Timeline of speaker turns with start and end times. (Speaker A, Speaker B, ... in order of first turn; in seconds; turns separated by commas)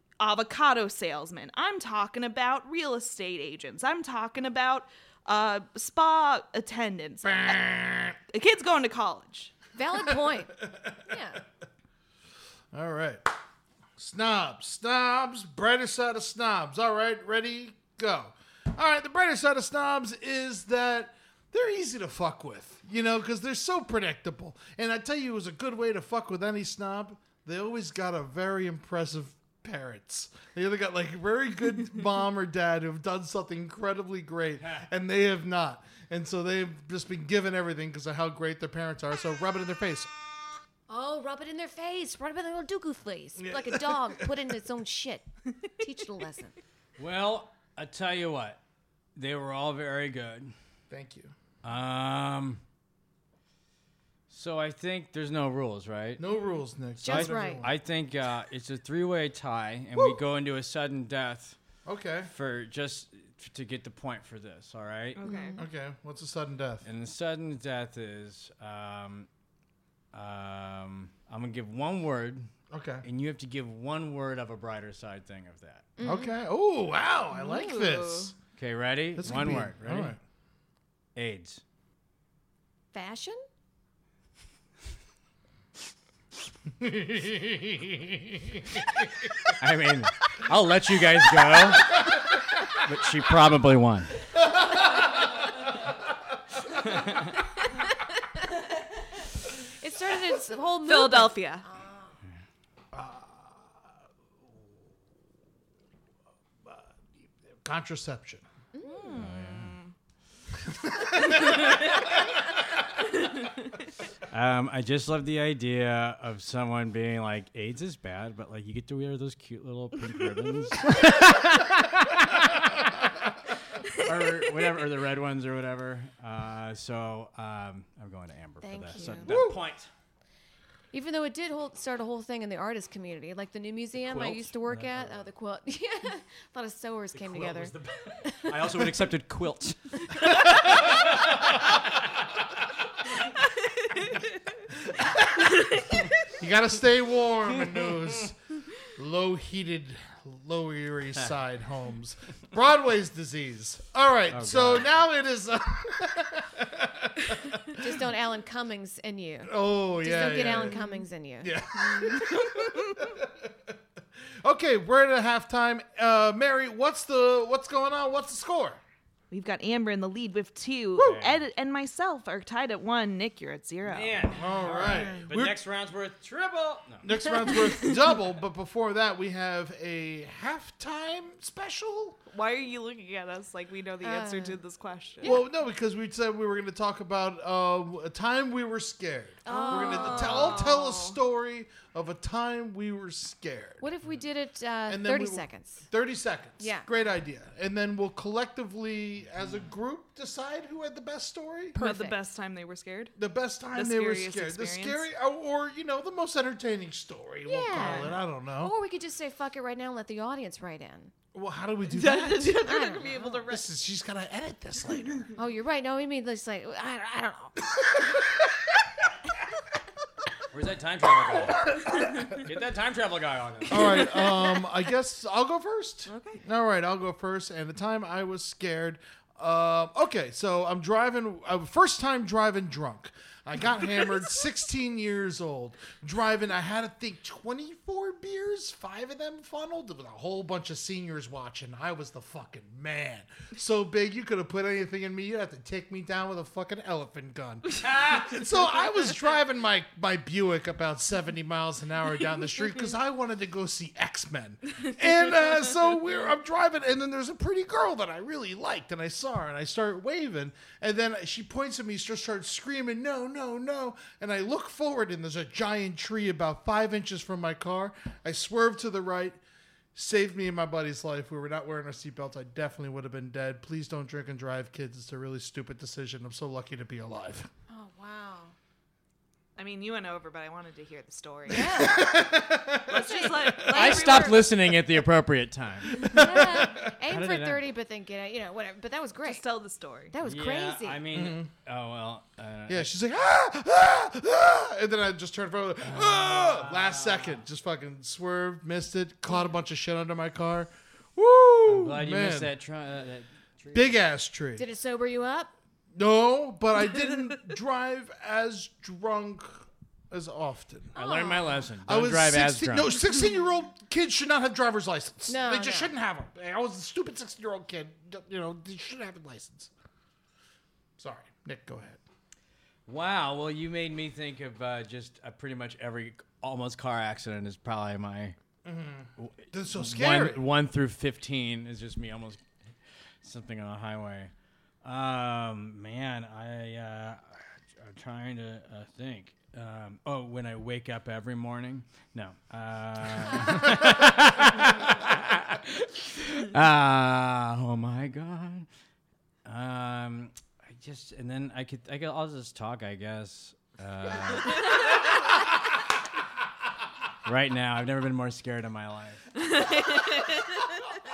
Speaker A: 0.2-7.6, Speaker B: 7.2-8.2, Speaker A: 8.3-9.5, Speaker C: 9.8-10.6, Speaker B: 10.7-11.0, Speaker C: 11.1-11.4, Speaker B: 12.7-13.2, Speaker B: 14.0-40.1, Speaker C: 40.9-45.2, Speaker B: 43.4-44.3, Speaker C: 45.8-46.5, Speaker D: 47.0-48.6, Speaker D: 49.1-50.5, Speaker B: 50.9-51.3, Speaker D: 51.6-52.6, Speaker D: 54.3-56.2, Speaker B: 56.2-57.7, Speaker C: 57.0-57.6, Speaker D: 57.0-61.5, Speaker B: 61.8-62.3, Speaker D: 62.3-65.2, Speaker A: 65.2-65.6, Speaker C: 65.2-65.6, Speaker B: 65.6-66.8, Speaker D: 66.8-69.3, Speaker D: 70.1-72.5, Speaker B: 72.7-73.0, Speaker D: 73.0-75.9, Speaker C: 76.0-76.4, Speaker B: 76.0-78.3, Speaker A: 77.3-78.3, Speaker D: 78.5-80.2, Speaker B: 79.2-80.2, Speaker D: 81.2-81.6, Speaker C: 82.9-83.4, Speaker B: 86.8-89.5, Speaker D: 89.6-92.0, Speaker D: 92.8-94.1, Speaker B: 94.4-95.1, Speaker D: 96.9-97.3, Speaker C: 99.8-102.1, Speaker A: 100.8-101.6, Speaker B: 102.9-103.7, Speaker B: 106.7-108.4, Speaker C: 108.7-109.2, Speaker A: 108.8-109.9, Speaker D: 109.1-109.8, Speaker B: 110.7-112.0, Speaker D: 114.3-122.7, Speaker D: 123.9-129.9, Speaker C: 128.6-129.4, Speaker A: 128.9-129.3, Speaker B: 129.3-129.6, Speaker C: 130.9-137.7, Speaker D: 134.0-135.3, Speaker D: 137.1-141.0, Speaker C: 138.2-138.5, Speaker B: 146.4-157.8, Speaker D: 154.3-154.9, Speaker C: 157.8-161.5, Speaker B: 159.4-163.3, Speaker B: 164.4-168.8, Speaker A: 169.3-174.2, Speaker D: 171.0-171.4, Speaker D: 173.8-177.1, Speaker B: 174.3-175.6, Speaker B: 177.0-182.2, Speaker A: 182.3-185.4, Speaker C: 184.0-184.6, Speaker C: 185.2-185.4, Speaker B: 185.2-193.8, Speaker C: 189.4-190.6, Speaker A: 189.5-191.2, Speaker C: 193.8-195.9, Speaker B: 194.9-201.8, Speaker C: 196.6-196.9, Speaker C: 201.7-202.2, Speaker A: 201.8-203.1, Speaker B: 203.2-208.7, Speaker A: 203.7-205.1, Speaker C: 207.4-211.1, Speaker A: 207.7-208.2, Speaker B: 211.3-212.7, Speaker A: 211.9-213.6, Speaker C: 212.6-213.4, Speaker B: 213.4-215.3, Speaker C: 215.3-217.6, Speaker D: 220.5-221.7, Speaker D: 222.3-224.1, Speaker B: 223.7-269.4, Speaker A: 226.1-226.4, Speaker B: 269.9-277.5, Speaker C: 277.7-278.5, Speaker A: 279.6-281.8, Speaker C: 281.5-282.2, Speaker B: 281.6-284.3, Speaker A: 282.9-284.6, Speaker D: 283.6-286.4, Speaker B: 286.0-286.9, Speaker C: 286.1-289.4, Speaker D: 287.1-287.6, Speaker A: 289.2-290.1, Speaker C: 290.1-291.0, Speaker D: 290.2-292.9, Speaker B: 291.1-291.5, Speaker B: 292.7-302.5, Speaker D: 295.8-297.4, Speaker D: 301.6-304.0, Speaker B: 303.7-304.6, Speaker C: 304.6-305.5, Speaker B: 305.9-311.0, Speaker C: 310.9-311.5, Speaker D: 310.9-313.0, Speaker B: 311.9-319.7, Speaker C: 315.3-315.9, Speaker B: 321.0-322.0, Speaker D: 322.9-328.4, Speaker B: 328.6-330.4, Speaker D: 329.2-332.4, Speaker D: 333.2-334.3, Speaker D: 334.8-348.7, Speaker D: 349.4-354.9, Speaker D: 357.2-359.5, Speaker A: 359.6-360.2